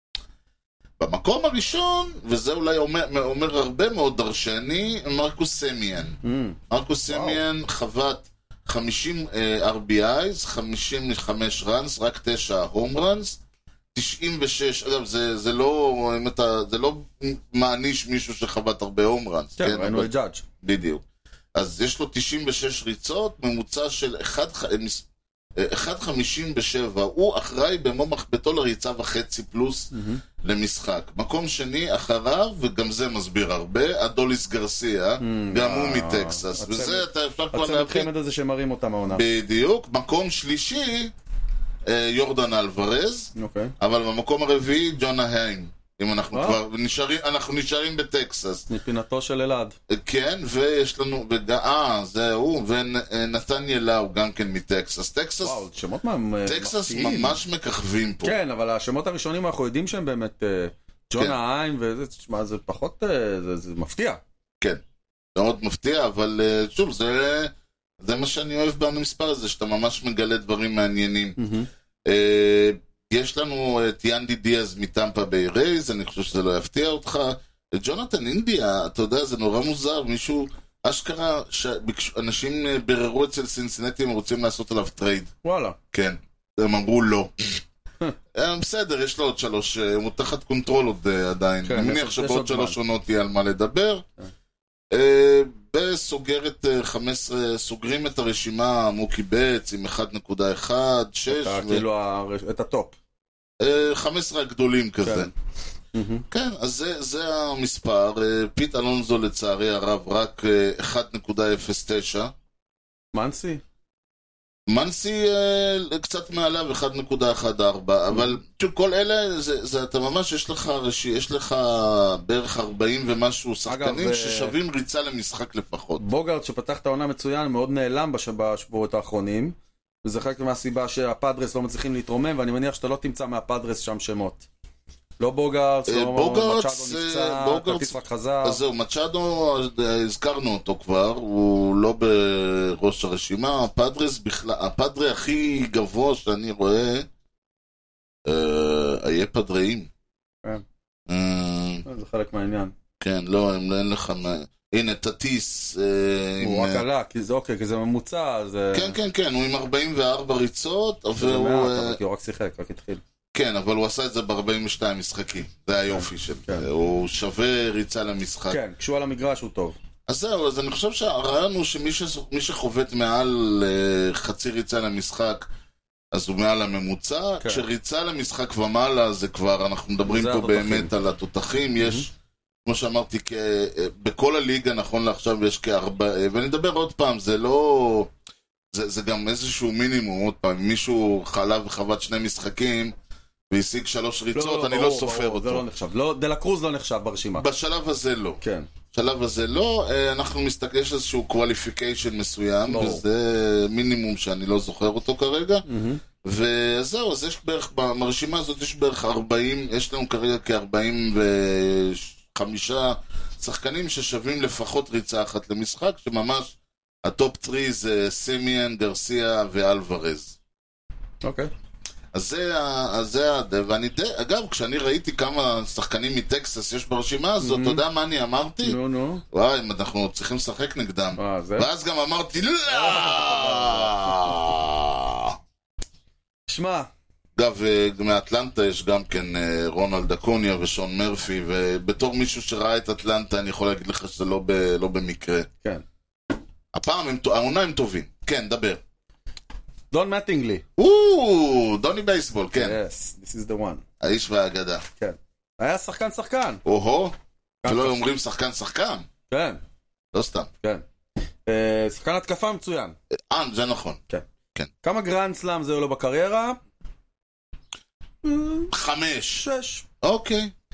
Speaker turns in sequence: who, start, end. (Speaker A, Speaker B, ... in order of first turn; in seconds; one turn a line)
Speaker A: 1.0-6.2
Speaker B: 6.2-7.4
Speaker A: 6.7-13.4
Speaker A: 13.9-20.1
Speaker B: 19.6-20.4
Speaker A: 20.6-21.0
Speaker A: 21.5-29.9
Speaker B: 29.9-30.2
Speaker A: 30.4-38.1
Speaker B: 35.2-39.2
Speaker A: 39.1-41.1
Speaker A: 41.9-48.6
Speaker B: 43.4-43.7
Speaker B: 46.3-46.6
Speaker B: 48.7-49.8
Speaker A: 49.9-55.6
Speaker B: 55.4-57.4
Speaker A: 56.5-58.3
Speaker B: 58.2-64.2
Speaker A: 65.3-71.4
Speaker B: 71.4-71.7
Speaker A: 72.0-85.3
Speaker B: 85.4-85.8
Speaker A: 85.9-87.6
Speaker A: 88.3-94.0
Speaker B: 91.6-92.8
Speaker A: 94.9-101.8
Speaker B: 101.3-103.0
Speaker A: 103.6-105.3
Speaker B: 105.0-105.3
Speaker B: 105.9-106.2
Speaker A: 106.3-112.3
Speaker B: 113.1-113.6
Speaker A: 114.7-126.0
Speaker B: 123.7-124.5
Speaker B: 126.0-134.4
Speaker B: 135.2-138.6
Speaker A: 135.9-147.1
Speaker A: 148.2-149.9
Speaker A: 151.1-151.8
Speaker B: 151.8-152.7
Speaker A: 153.0-156.8
Speaker B: 156.4-159.0
Speaker A: 158.7-162.0
Speaker B: 161.2-163.0
Speaker A: 163.3-168.6
Speaker B: 165.9-166.7
Speaker B: 168.5-169.8
Speaker A: 170.1-175.4
Speaker A: 176.1-182.1
Speaker B: 177.4-177.7
Speaker B: 180.1-180.9
Speaker A: 182.6-188.1
Speaker A: 188.7-192.9
Speaker A: 193.5-195.6
Speaker B: 194.3-197.4
Speaker A: 197.3-198.4
Speaker B: 198.4-198.7
Speaker A: 198.9-205.7
Speaker B: 202.7-203.0
Speaker B: 205.7-206.0
Speaker A: 206.2-220.4
Speaker B: 221.2-221.5
Speaker A: 222.1-228.8
Speaker B: 227.4-227.8
Speaker B: 228.6-229.2
Speaker A: 229.3-235.4
Speaker B: 231.2-231.7
Speaker B: 232.7-234.2
Speaker B: 236.5-236.9
Speaker A: 237.3-245.5
Speaker A: 246.7-248.8
Speaker B: 249.9-250.6
Speaker A: 250.8-252.8
Speaker B: 252.6-253.8
Speaker A: 254.0-254.8
Speaker B: 255.0-256.6
Speaker A: 256.6-257.1
Speaker B: 257.6-258.0
Speaker A: 257.6-259.0
Speaker B: 259.3-259.6
Speaker A: 260.1-260.5
Speaker B: 261.4-262.9
Speaker A: 263.1-264.0
Speaker B: 264.8-266.6
Speaker B: 268.2-268.7
Speaker A: 268.7-269.4
Speaker B: 269.4-269.9
Speaker A: 270.0-270.5